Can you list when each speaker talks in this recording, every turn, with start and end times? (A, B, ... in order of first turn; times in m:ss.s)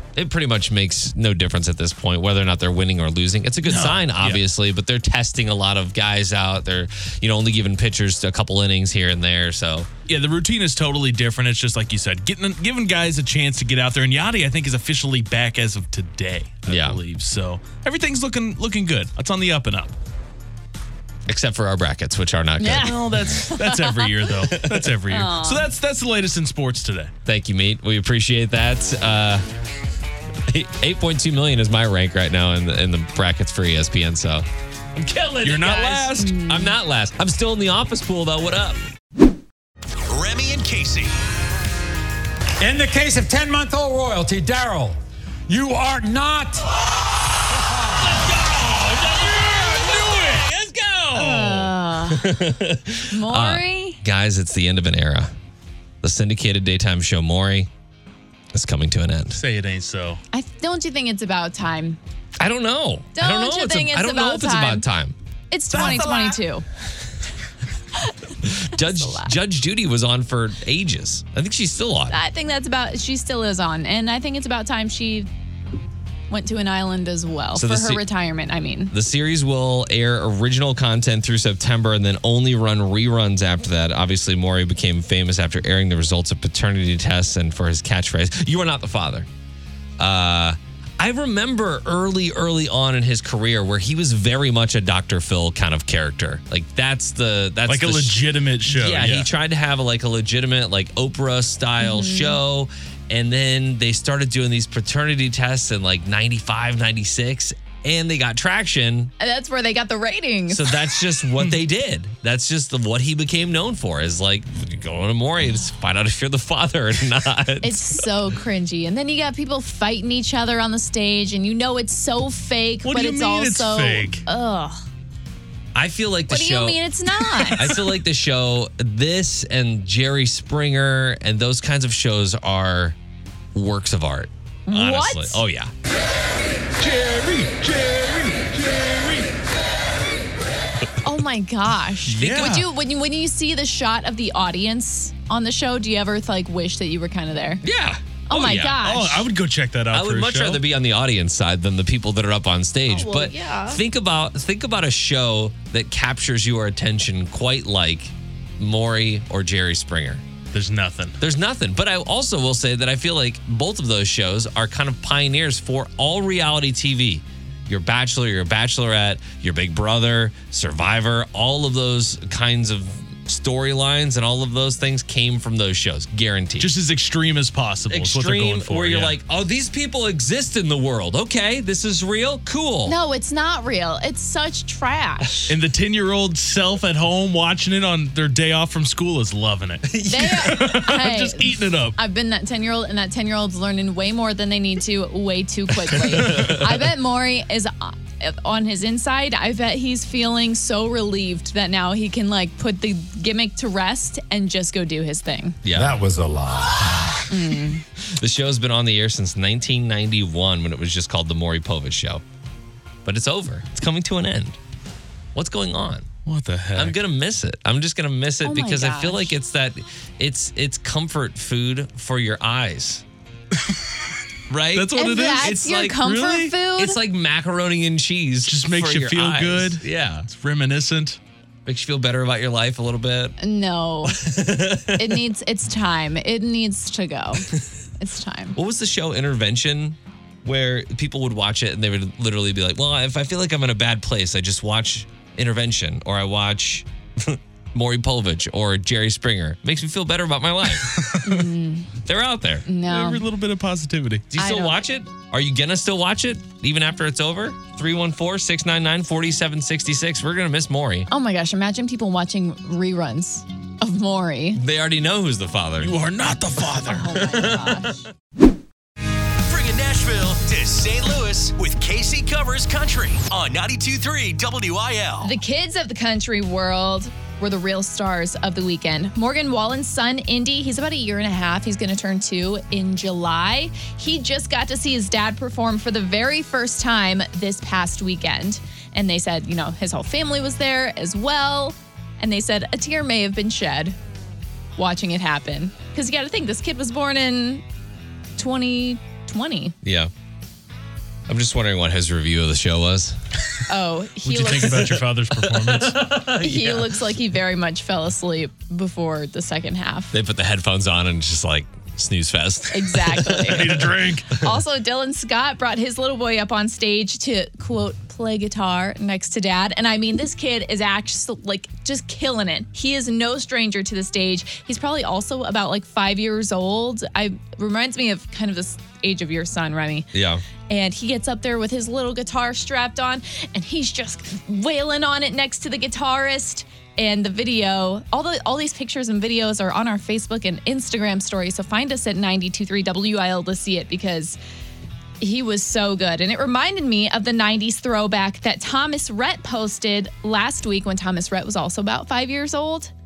0:00.2-0:09.9 A
0:03.7-0:04.4 B
0:10.1-0:20.0 B
0:16.7-0:17.0 A
0:21.3-0:23.2 A
0:22.6-0:24.2 C
0:22.8-0:27.1 B
0:24.5-0:24.9 A
0:25.1-0:25.7 C
0:27.2-0:29.4 A
0:30.5-0:38.8 A
0:35.4-0:36.4 B
0:36.2-0:36.8 C
0:40.1-0:41.2 D
0:42.6-0:45.0 E
0:45.5-0:46.7 E
0:47.6-0:48.0 E
0:48.1-0:49.4 A
0:48.1-0:51.7 B
0:50.8-0:51.1 A
0:51.1-0:52.4 C
0:52.1-0:55.3 A
0:53.1-0:54.0 C
0:56.0-0:57.7 A
0:58.5-0:59.4 A
0:59.3-1:00.2 B
1:00.3-1:02.0 C
1:02.4-1:05.2 A
1:03.2-1:04.8 C
1:05.5-1:06.6 C
1:05.7-1:06.4 B
1:08.4-1:12.2 A
1:08.7-1:09.3 C
1:12.1-1:15.3 C
1:16.3-1:18.9 C
1:17.5-1:18.0 A
1:18.9-1:29.3 A
1:30.0-1:49.1 A
1:37.7-1:39.3 B
1:41.8-1:42.4 C
1:49.2-1:50.8 C
1:50.5-1:58.0 A
1:57.6-2:04.8 C
2:02.8-2:04.2 B
2:05.8-2:06.8 A
2:06.3-2:07.7 C
2:07.4-2:07.8 B
2:07.6-2:13.0 A
2:13.5-2:15.7 A
2:14.7-2:15.4 C
2:16.8-2:19.3 B
2:21.0-2:27.6 C
2:22.1-2:22.6 A
2:22.1-2:22.7 B
2:27.6-2:28.8 A
2:28.3-2:29.3 C
2:28.8-2:30.6 B
2:29.9-2:40.2 A
2:32.9-2:33.8 C
2:40.5-2:41.2 B
2:41.2-2:56.7 A
2:56.6-2:59.2 B
2:57.9-3:03.0 A
3:02.9-3:05.5 C
3:05.5-3:12.0 B
3:09.9-3:10.8 A
3:10.0-3:25.6 C
3:16.1-3:16.8 A
3:25.6-3:26.1 A
3:25.7-3:27.0 E
3:27.3-3:27.8 C
3:28.0-3:32.2 A
3:33.0-3:34.6 A
3:35.4-3:36.1 A
3:36.3-3:37.0 B
3:36.8-3:43.0 A
3:38.4-3:39.4 C
3:43.6-3:43.8 B
3:44.5-3:46.0 A
3:44.7-3:46.6 B
3:45.0-3:47.0 C
3:46.8-3:50.3 A
3:48.5-3:51.2 B
3:51.7-3:53.4 A
3:53.4-3:54.3 C
3:54.1-3:55.2 A
3:54.9-3:58.6 C
3:58.6-4:11.0 A
4:10.8-4:11.4 B
4:11.2-4:11.9 C
4:12.0-4:12.7 A
4:12.7-4:13.2 C
4:12.9-4:14.3 B
4:14.3-4:21.1 A
4:14.4-4:14.8 C
4:21.1-4:24.6 C
4:24.5-4:25.9 A
4:25.8-4:27.6 B
4:26.9-4:28.0 C
4:29.5-4:35.4 D
4:35.2-4:54.0 C
4:54.8-4:57.6 C
4:58.4-4:59.8 C
4:59.8-5:00.1 A
5:01.3-5:03.2 A
5:03.7-5:05.0 C
5:04.2-5:06.0 B
5:05.4-5:07.0 A
5:06.3-5:10.1 C
5:10.1-5:13.9 A
5:12.7-5:13.8 C
5:13.4-5:14.4 B
5:14.3-5:30.1 C
5:30.1-5:30.4 A
5:30.7-5:44.4 C
5:45.2-5:52.9 C